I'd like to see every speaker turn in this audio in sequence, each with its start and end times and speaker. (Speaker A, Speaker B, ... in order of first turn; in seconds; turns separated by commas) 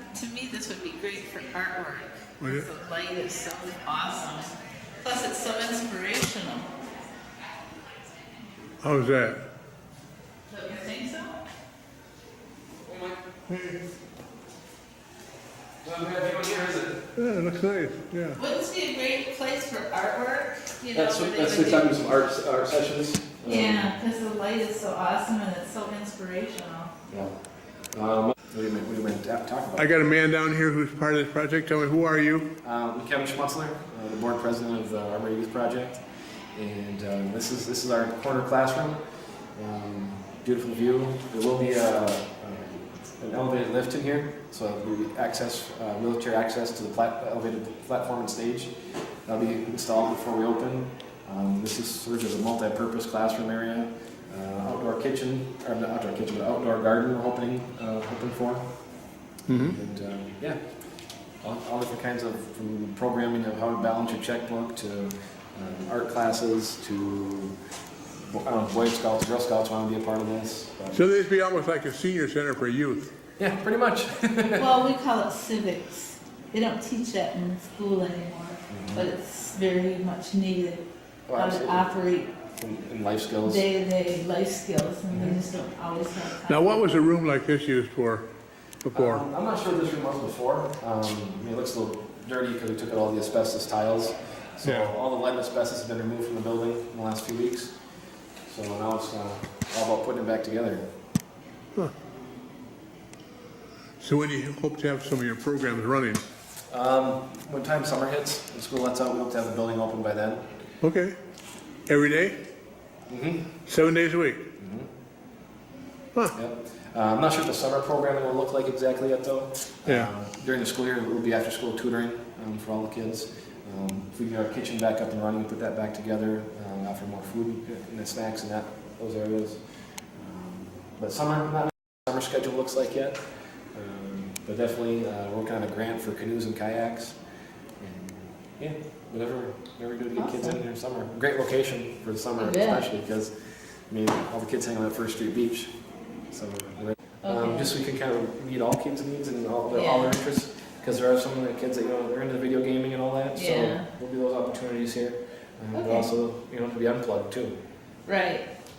Speaker A: 0.1-6.7, Speaker B: 2.4-2.7, Speaker B: 8.8-9.5, Speaker A: 10.5-11.4, Speaker C: 12.8-13.2, Speaker B: 13.5-13.8, Speaker C: 15.8-17.0, Speaker B: 17.2-18.4, Speaker A: 18.4-22.0, Speaker C: 20.9-23.9, Speaker A: 23.4-26.9, Speaker C: 27.1-27.4, Speaker C: 27.9-29.9, Speaker B: 29.8-32.5, Speaker C: 32.6-36.0, Speaker C: 36.5-39.0, Speaker C: 39.6-48.7, Speaker C: 49.3-58.6, Speaker B: 59.5-59.8, Speaker C: 59.5-60.6, Speaker C: 61.4-67.6, Speaker C: 68.2-71.1, Speaker B: 70.9-73.1, Speaker C: 73.4-74.7, Speaker A: 74.6-82.3, Speaker C: 78.7-79.1, Speaker C: 81.3-81.9, Speaker C: 82.6-83.7, Speaker A: 83.5-86.9, Speaker C: 85.1-85.4, Speaker B: 86.5-88.3, Speaker B: 88.8-89.3, Speaker C: 88.9-97.8, Speaker B: 94.6-94.9, Speaker C: 98.5-100.8, Speaker B: 104.0-106.2, Speaker C: 106.7-110.5, Speaker B: 110.8-111.2, Speaker B: 111.9-112.4, Speaker C: 113.1-113.5, Speaker B: 113.7-114.5, Speaker C: 114.6-114.9, Speaker C: 116.3-129.6, Speaker C: 130.1-137.2, Speaker C: 137.8-143.3, Speaker A: 140.2-140.6, Speaker A: 142.4-142.9, Speaker C: 143.9-145.8, Speaker C: 146.3-157.6, Speaker A: 147.2-147.7, Speaker A: 149.7-150.2, Speaker A: 153.3-153.9, Speaker A: 155.7-156.1, Speaker A: 158.1-158.5